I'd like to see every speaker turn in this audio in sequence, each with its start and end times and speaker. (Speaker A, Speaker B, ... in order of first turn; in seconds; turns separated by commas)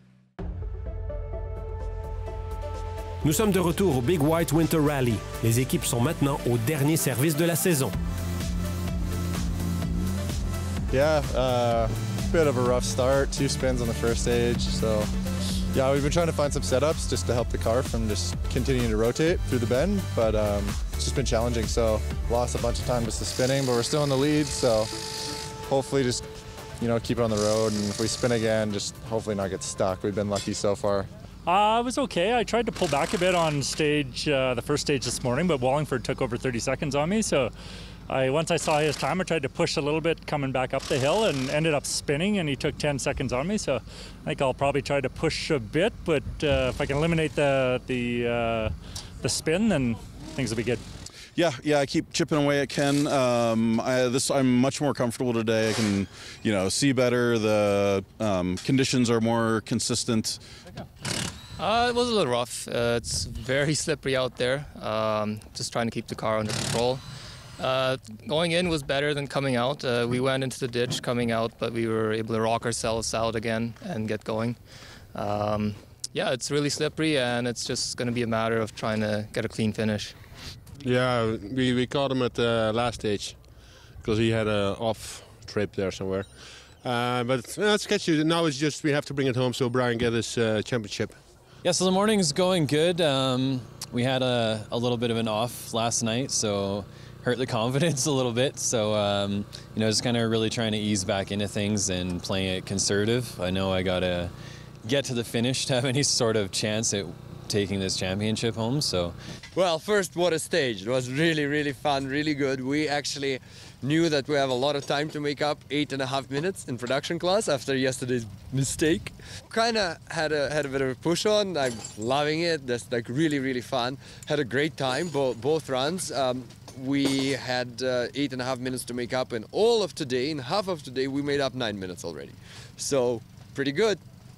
Speaker A: 3.2-8.0, Speaker B: 10.9-15.1, Speaker B: 15.7-26.2, Speaker B: 26.8-31.1, Speaker C: 31.4-37.5, Speaker C: 38.1-50.8, Speaker D: 51.4-60.4, Speaker E: 61.6-67.0, Speaker E: 67.6-74.6, Speaker E: 75.1-80.2, Speaker F: 80.8-83.4, Speaker F: 84.0-86.3, Speaker F: 86.8-91.2, Speaker G: 91.6-104.3, Speaker G: 104.8-109.1, Speaker H: 109.5-134.0